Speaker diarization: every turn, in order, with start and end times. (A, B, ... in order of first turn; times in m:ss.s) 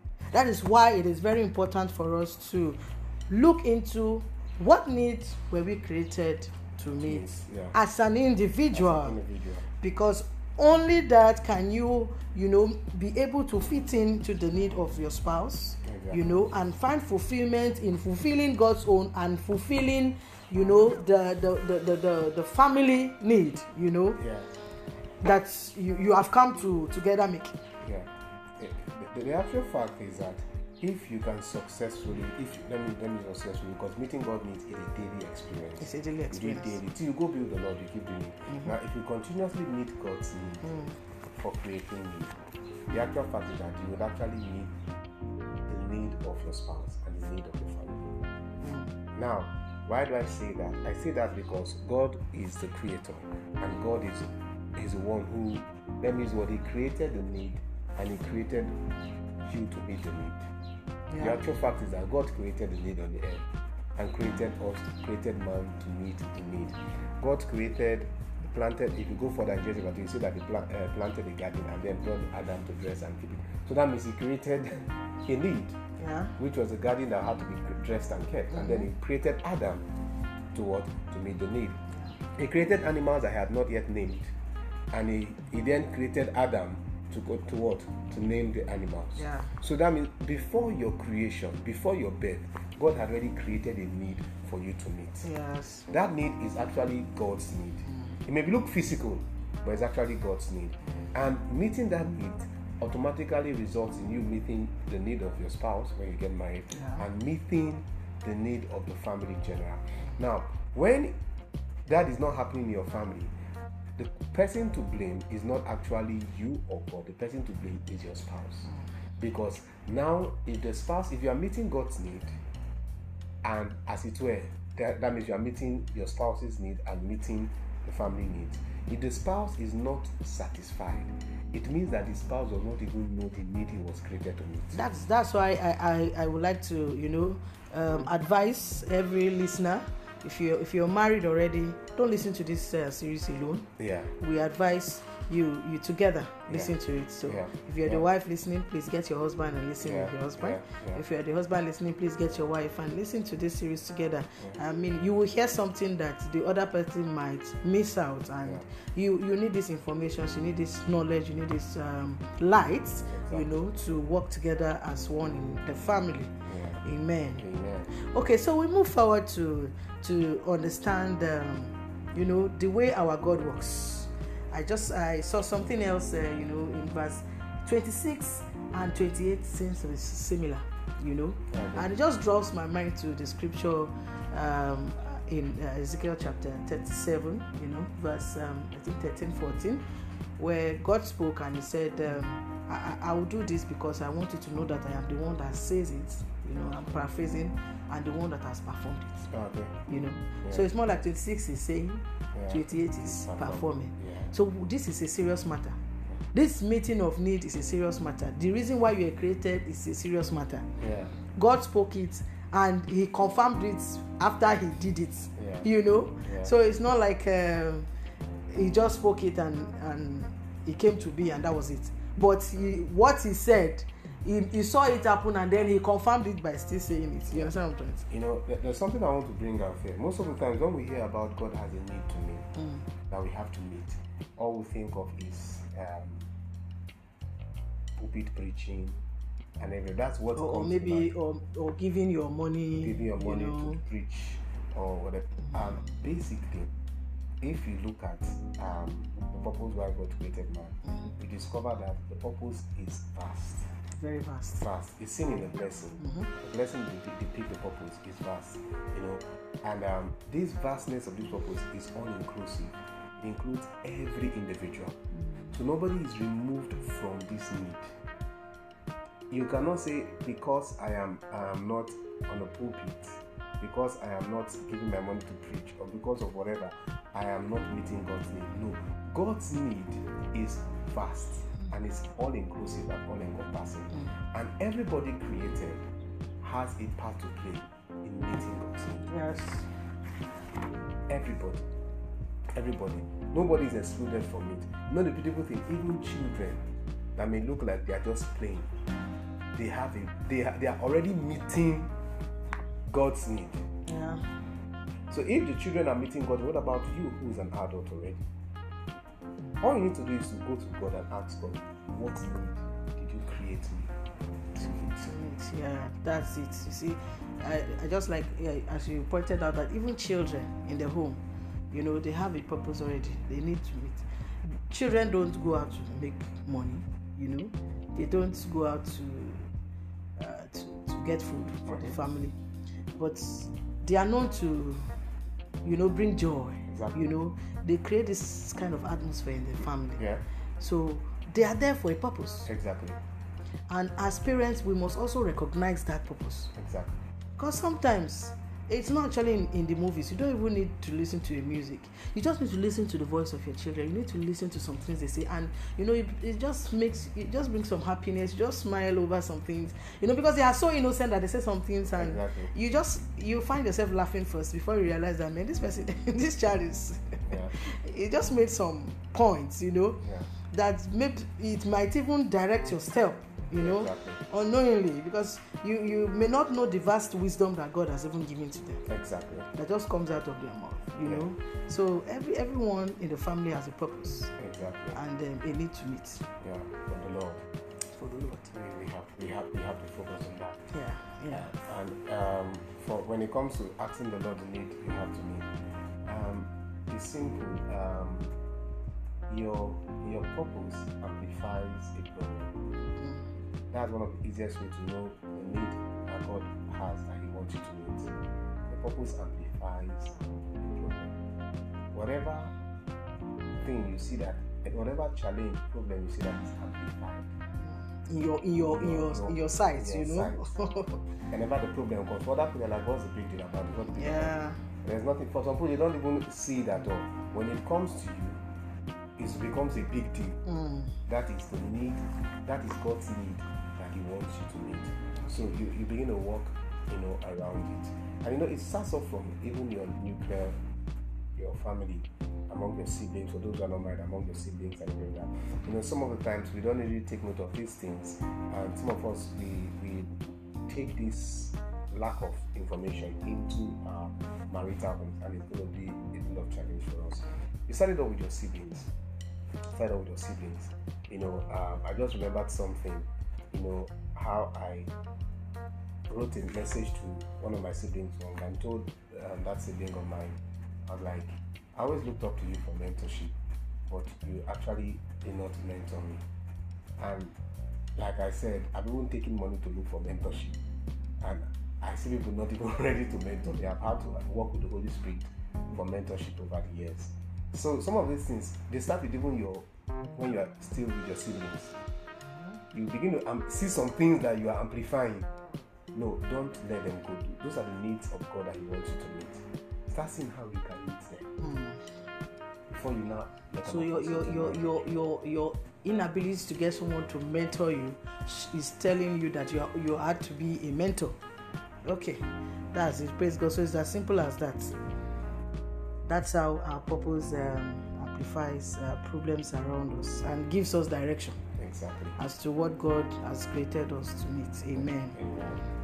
0:00.3-0:09.2 A
0:07.0-0:07.7 B
0:08.7-0:09.7 B
0:09.8-0:24.2 A
0:15.8-0:16.4 B
0:24.2-0:24.5 B
0:25.2-0:27.6 A
0:27.8-0:40.7 B
0:35.8-0:36.8 A
0:40.6-0:40.9 A
0:41.3-0:44.7 B
0:45.7-0:48.1 B
0:48.6-0:48.9 A
0:49.1-0:58.8 B
0:59.4-1:00.5 B
1:01.1-1:01.4 A
1:01.2-1:15.8 B
1:16.0-1:16.3 A
1:16.4-1:19.9 B
1:18.5-1:18.8 A
1:20.5-1:21.8 B
1:22.3-1:24.3 B
1:24.9-1:35.3 B
1:29.2-1:29.5 A
1:35.2-1:35.9 A
1:35.9-1:51.2 B
1:46.7-1:47.0 A
1:51.8-1:53.3 B
1:54.0-2:02.3 B
2:03.4-2:14.8 B
2:14.7-2:23.7 A
2:23.8-2:24.1 B
2:24.2-2:46.3 A
2:27.2-2:28.0 B
2:29.8-2:31.0 B
2:43.1-2:43.5 B
2:46.4-2:46.8 B
2:46.8-3:09.8 A
2:47.4-2:47.9 B
3:01.5-3:01.9 B
3:10.4-3:19.3 A
3:19.3-3:19.8 B
3:19.9-3:25.8 A
3:22.3-3:24.3 B
3:26.3-3:30.7 A
3:30.8-3:31.1 B
3:31.3-3:37.9 A
3:35.4-3:35.7 B
3:36.2-3:36.5 B
3:38.5-3:48.0 A
3:48.1-3:52.5 B
3:53.1-3:56.3 B
3:58.0-3:59.0 B
3:59.6-4:01.1 B
4:00.4-4:03.8 A
4:02.8-4:06.7 B
4:07.4-4:13.7 B
4:13.9-4:14.6 A
4:14.6-4:25.0 B
4:25.5-4:28.0 B
4:29.3-4:45.8 B
4:46.4-4:49.1 B
4:49.1-4:49.7 A
4:51.1-4:51.6 B
4:52.5-4:58.7 B
4:59.5-5:01.9 B
5:02.9-5:03.6 B
5:03.8-5:04.3 A
5:05.1-5:08.2 B
5:09.6-5:13.9 B
5:14.5-5:15.1 B
5:15.0-5:29.5 A
5:30.2-5:32.3 A
5:31.7-5:31.9 B
5:33.0-5:34.9 A
5:35.6-5:40.0 A
5:36.7-5:37.0 B
5:40.0-5:40.2 B
5:40.6-5:42.5 A
5:42.4-5:43.0 B
5:43.7-5:46.5 A
5:46.5-5:47.0 B
5:47.4-6:18.8 A
6:01.9-6:02.5 B
6:07.3-6:07.6 B
6:10.0-6:10.3 B
6:13.5-6:14.2 B
6:18.8-6:19.5 B
6:19.5-6:24.3 A
6:21.0-6:21.3 B
6:24.4-6:25.0 B
6:24.9-6:26.2 A
6:26.4-6:27.4 B
6:27.9-6:28.5 A
6:28.5-6:30.6 B
6:30.7-6:31.5 A
6:31.3-6:35.5 B
6:36.0-6:38.3 B
6:39.3-6:42.5 B
6:43.7-6:48.1 B
6:48.7-6:51.1 B
6:51.9-6:52.5 B
6:53.6-6:57.3 B
6:57.6-7:01.0 A
6:58.7-7:00.4 B
7:01.3-7:08.4 B
7:03.9-7:04.6 A
7:09.2-7:10.4 B
7:10.5-7:10.9 A
7:11.1-7:20.6 B
7:21.3-7:30.1 B
7:30.6-7:38.9 B
7:39.7-7:44.9 B
7:46.1-7:53.3 B
7:53.9-7:56.2 B
7:57.0-7:57.3 B
7:58.0-8:00.6 B
8:01.2-8:11.8 B
8:12.7-8:15.3 B
8:15.9-8:21.3 B
8:21.4-8:21.8 A
8:22.7-8:24.8 B
8:23.6-8:31.2 A
8:31.8-8:34.7 A
8:36.0-8:41.4 A
8:41.6-8:42.2 B
8:42.2-8:45.2 A
8:44.8-8:45.6 B